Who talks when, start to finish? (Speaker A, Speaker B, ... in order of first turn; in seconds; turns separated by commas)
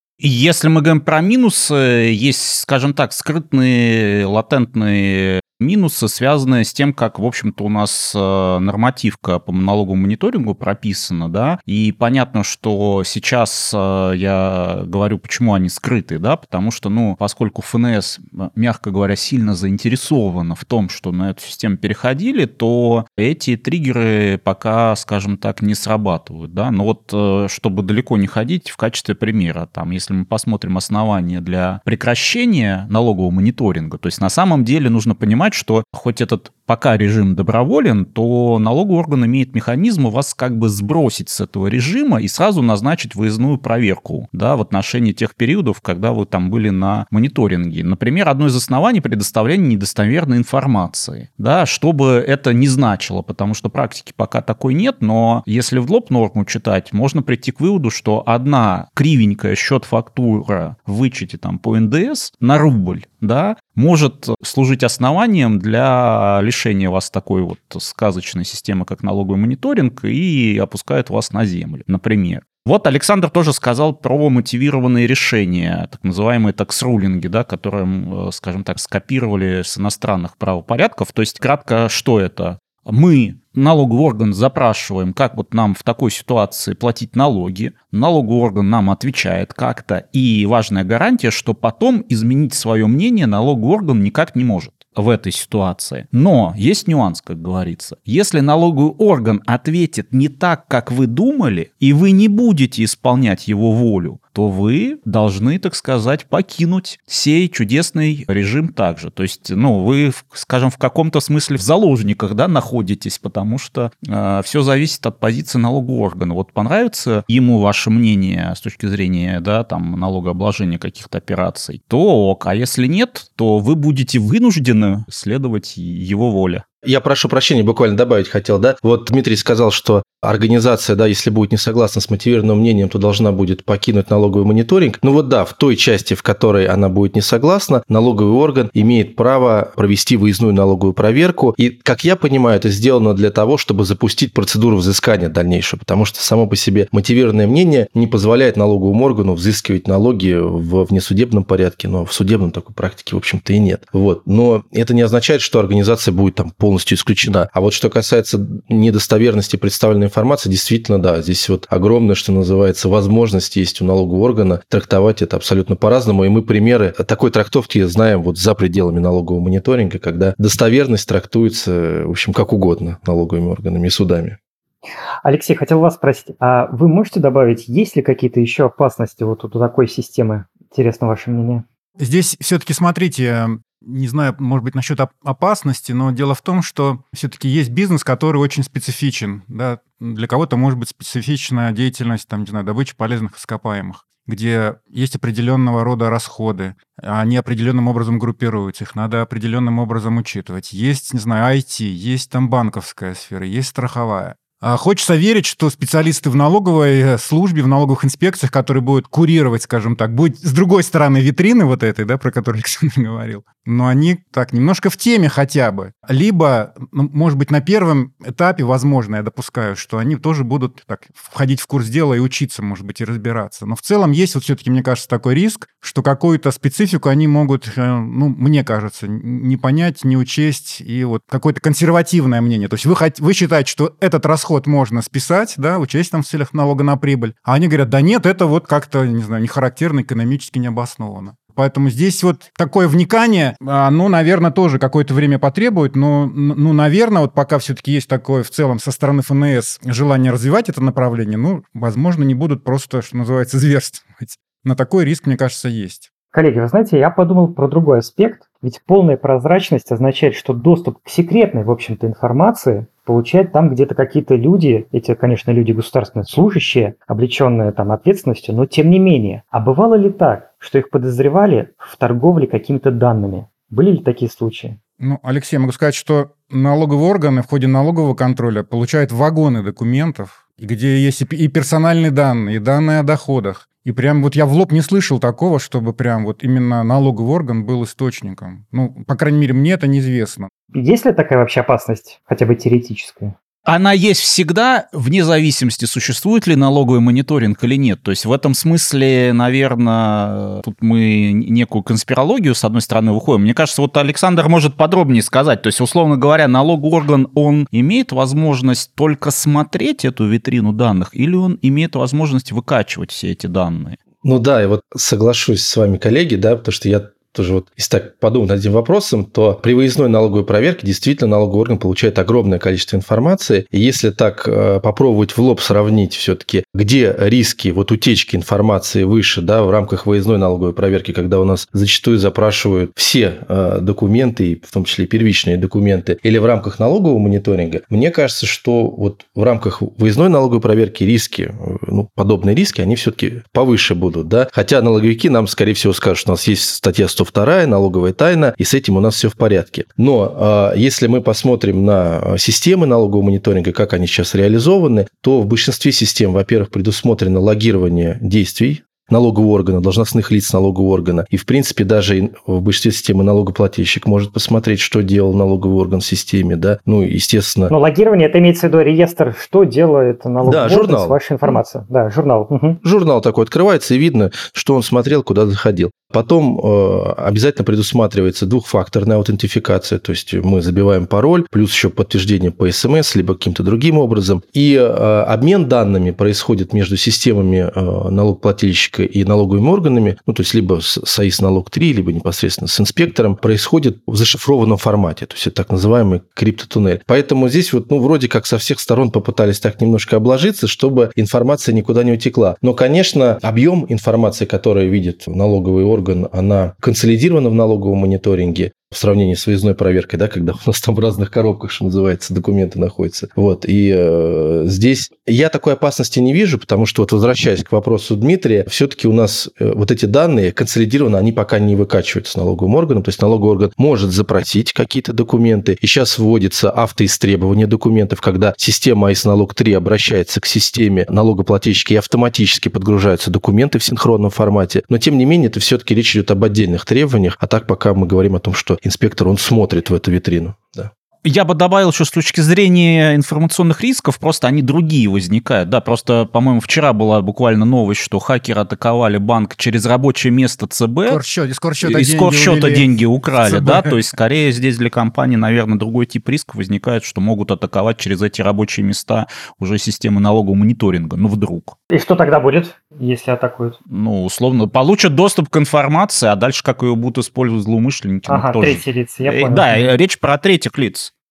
Speaker A: 0.2-126.6, Speaker B: 126.8-174.4, Speaker C: 175.2-181.6, Speaker D: 182.0-256.1, Speaker C: 256.3-274.8, Speaker D: 275.0-290.5, Speaker C: 290.7-293.3, Speaker A: 293.6-314.0, Speaker B: 314.2-367.7, Speaker C: 367.7-372.8, Speaker B: 370.4-371.5, Speaker B: 372.8-440.9, Speaker A: 441.2-451.2, Speaker D: 451.1-454.0, Speaker A: 451.8-461.8, Speaker C: 461.9-463.8, Speaker A: 463.9-471.1, Speaker C: 468.3-469.9